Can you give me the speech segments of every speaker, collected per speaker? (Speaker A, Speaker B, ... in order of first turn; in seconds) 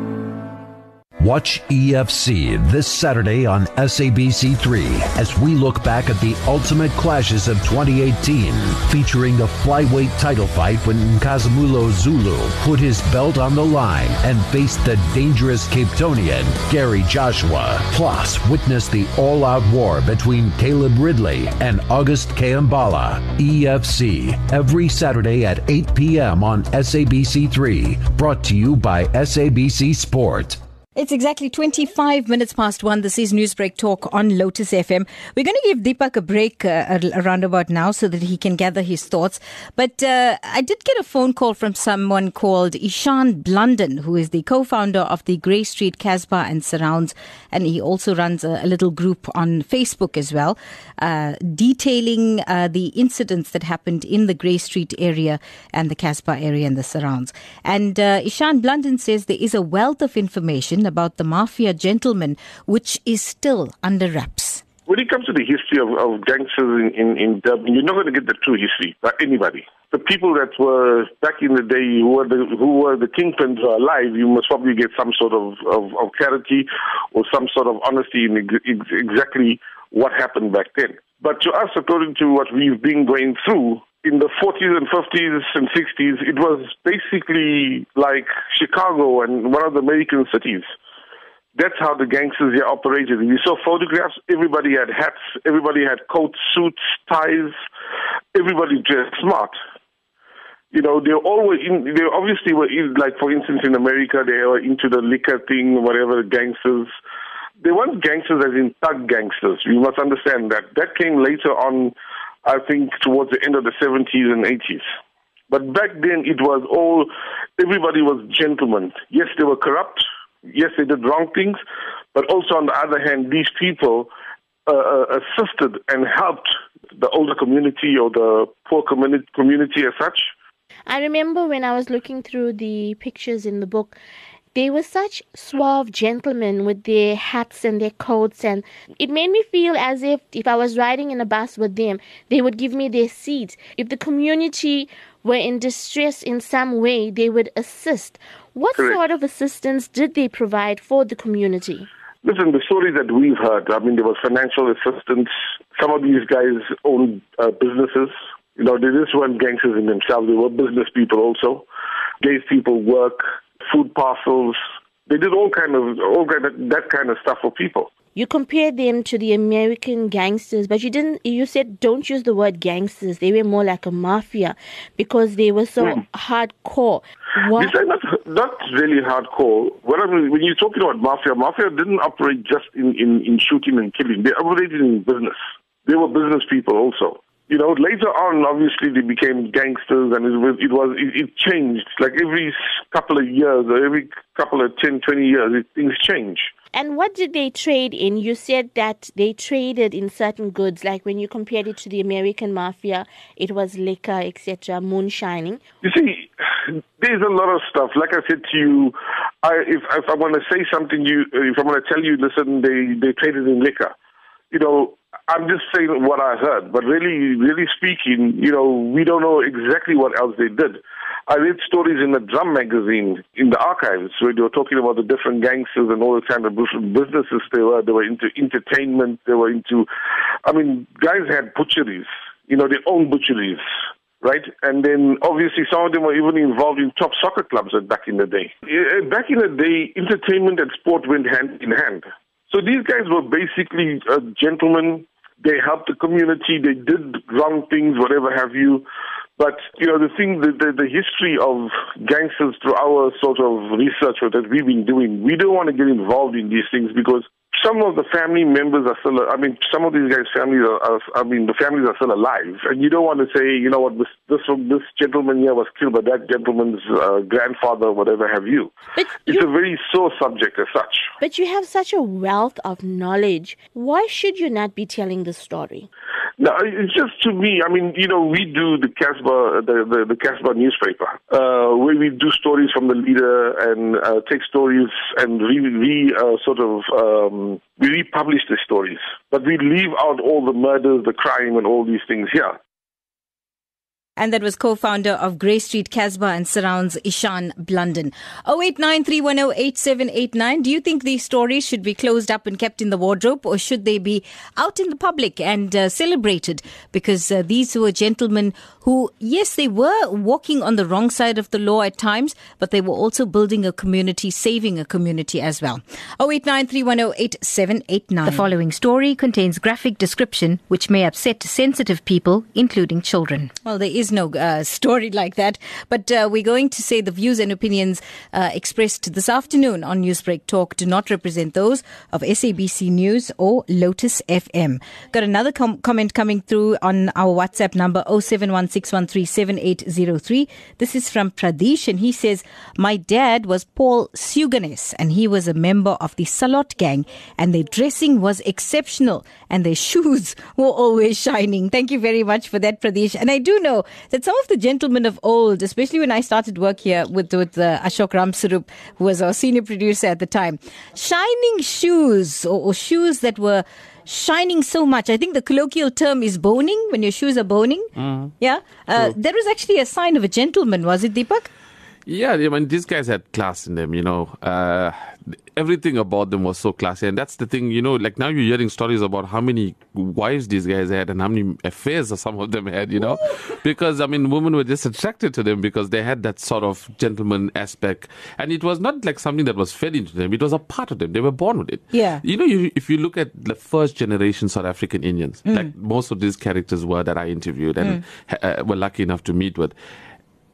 Speaker A: 1.2-30.6
Speaker B: 31.0-64.6, 294.2-371.5, 391.9-392.2
Speaker C: 64.9-90.7, 91.5-97.6, 98.3-99.6, 100.7-106.9, 107.6-111.9, 112.5-114.9, 115.5-121.6, 122.1-124.1, 124.7-130.3, 152.2-161.7, 162.2-167.9, 177.6-196.5, 205.8-213.9, 214.5-229.9, 230.4-233.6, 234.2-248.8, 249.4-268.7, 269.3-271.1, 276.4-292.6
Speaker D: 130.9-134.0, 134.5-151.9, 168.2-177.8, 196.7-205.6, 268.9-269.5, 271.2-275.9
Speaker E: 368.0-368.3, 372.1-399.7